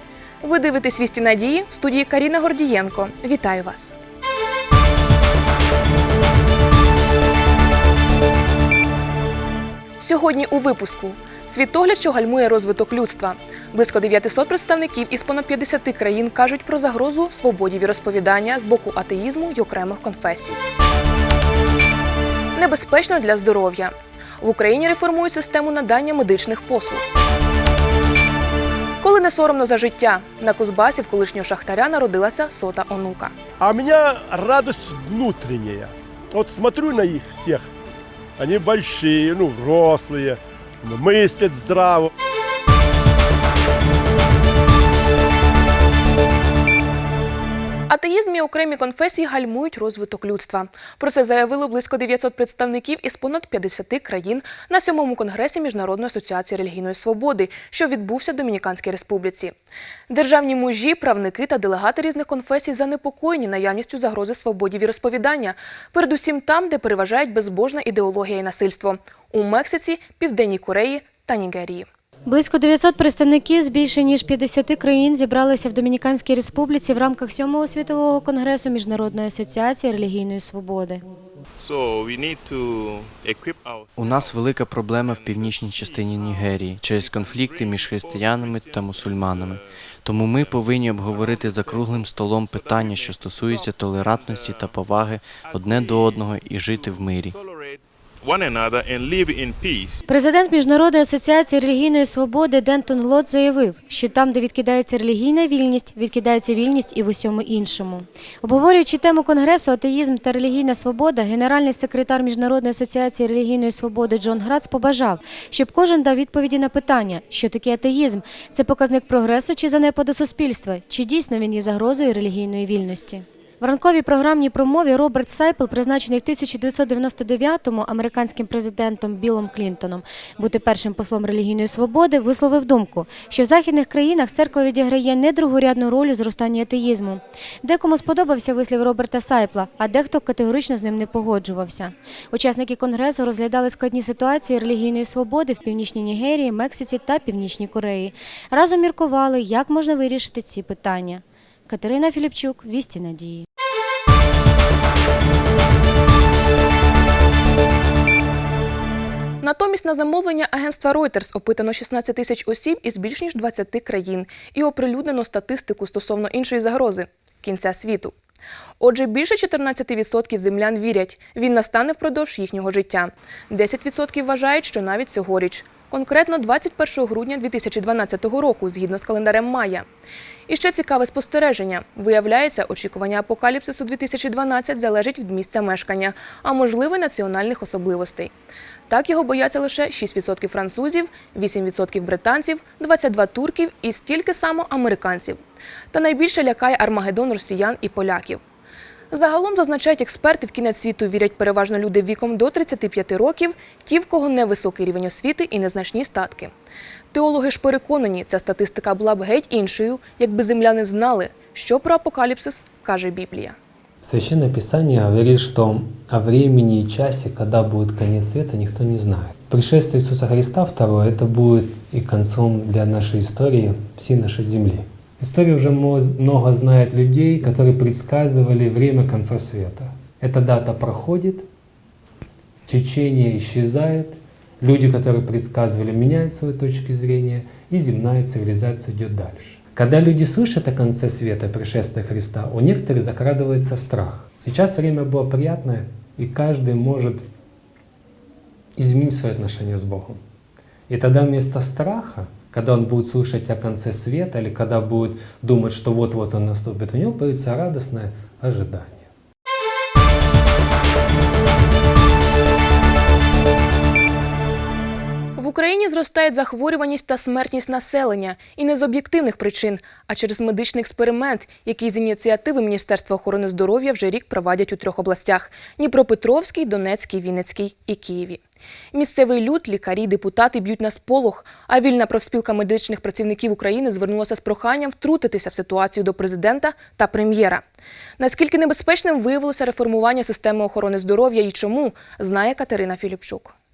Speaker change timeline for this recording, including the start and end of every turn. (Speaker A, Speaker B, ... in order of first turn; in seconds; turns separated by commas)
Speaker A: 0.4-4.0, Speaker A: 10.0-20.6, Speaker A: 22.6-27.0, Speaker A: 29.0-33.4, Speaker B: 33.6-37.7, Speaker B: 38.4-42.1, Speaker A: 47.9-59.6, Speaker A: 60.1-71.9, Speaker C: 72.3-81.0, Speaker D: 81.6-89.7, Speaker E: 84.0-97.4, Speaker D: 90.2-91.9, Speaker D: 92.5-94.8, Speaker D: 95.3-100.0, Speaker C: 100.1-153.5, Speaker A: 159.4-168.1, Speaker A: 168.8-179.9, Speaker A: 180.5-188.3, Speaker A: 188.9-195.4, Speaker A: 195.9-198.4, Speaker A: 199.1-206.5, Speaker A: 207.1-213.6, Speaker F: 214.0-231.4, Speaker F: 232.7-247.2, Speaker F: 248.8-250.2, Speaker F: 250.9-259.1, Speaker A: 265.4-278.4, Speaker A: 278.9-287.6, Speaker A: 288.2-293.5